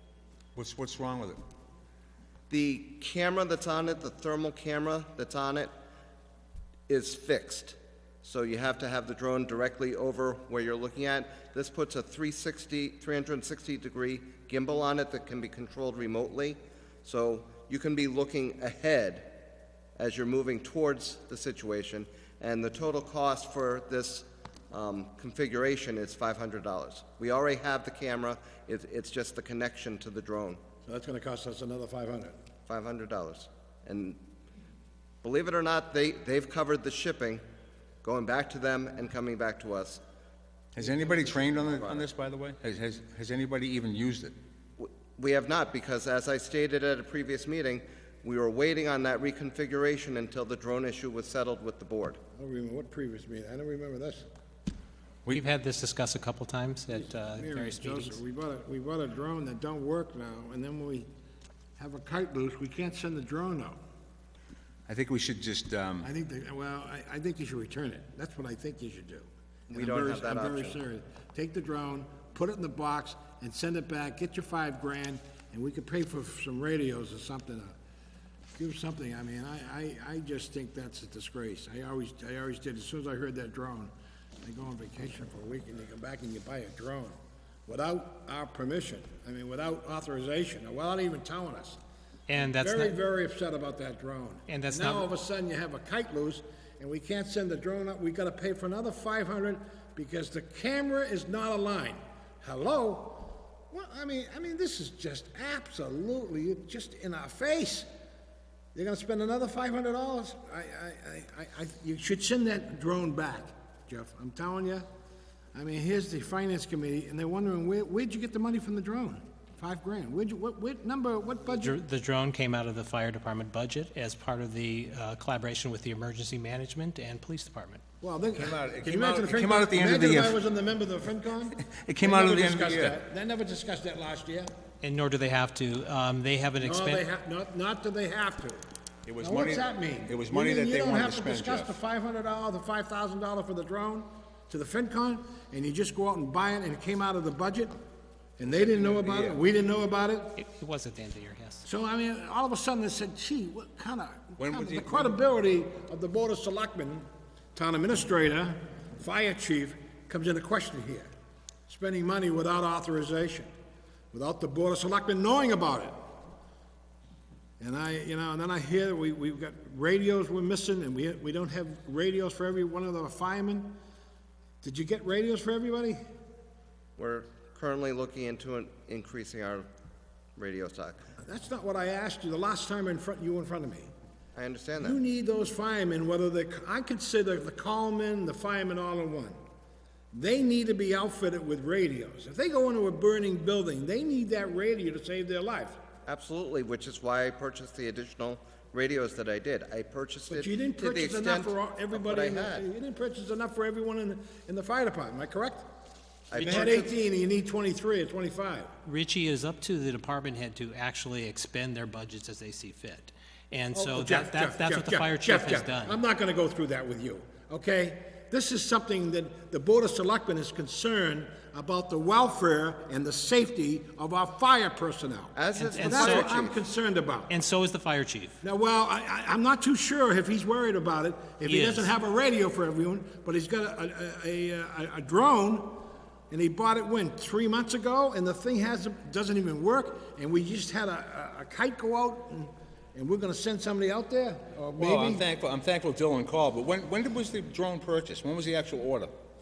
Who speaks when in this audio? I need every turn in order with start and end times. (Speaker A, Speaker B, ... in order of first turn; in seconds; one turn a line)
Speaker A: 0.6-1.4
Speaker B: 2.5-5.7
Speaker B: 6.9-19.3
Speaker B: 20.0-30.6
Speaker C: 30.9-32.3
Speaker B: 32.7-34.2
Speaker B: 35.2-37.4
Speaker B: 38.0-40.0
Speaker A: 40.7-44.3
Speaker B: 41.2-42.0
Speaker B: 44.8-52.2
Speaker C: 52.4-54.3
Speaker D: 55.3-58.2
Speaker C: 57.3-61.1
Speaker C: 61.8-63.8
Speaker A: 64.9-66.1
Speaker C: 66.0-77.7
Speaker B: 69.7-70.8
Speaker C: 78.5-91.8
Speaker D: 92.3-92.9
Speaker C: 92.4-107.9
Speaker D: 94.5-95.0
Speaker C: 108.7-114.9
Speaker C: 115.5-121.8
Speaker D: 121.6-127.8
Speaker C: 128.0-134.5
Speaker A: 128.3-130.4
Speaker A: 131.6-133.0
Speaker D: 134.8-137.0
Speaker C: 136.6-138.6
Speaker A: 139.1-141.7
Speaker C: 139.2-147.7
Speaker C: 148.4-150.4
Speaker A: 148.5-149.4
Speaker D: 150.3-151.6
Speaker C: 151.6-161.1
Speaker A: 154.4-155.1
Speaker C: 161.7-163.5
Speaker C: 164.1-166.1
Speaker C: 167.6-173.8
Speaker C: 174.6-176.0
Speaker B: 177.0-179.7
Speaker B: 180.4-181.1
Speaker C: 181.2-183.9
Speaker B: 184.3-185.0
Speaker C: 184.8-189.4
Speaker C: 190.1-195.8
Speaker B: 196.1-202.6
Speaker C: 200.3-205.6
Speaker B: 206.3-206.9
Speaker C: 206.4-208.7
Speaker D: 206.4-206.7
Speaker D: 208.8-216.0
Speaker C: 213.7-227.3
Speaker B: 225.3-226.6
Speaker D: 225.6-226.3
Speaker D: 227.3-228.3
Speaker C: 228.4-245.2
Speaker D: 231.4-231.9
Speaker A: 244.8-249.1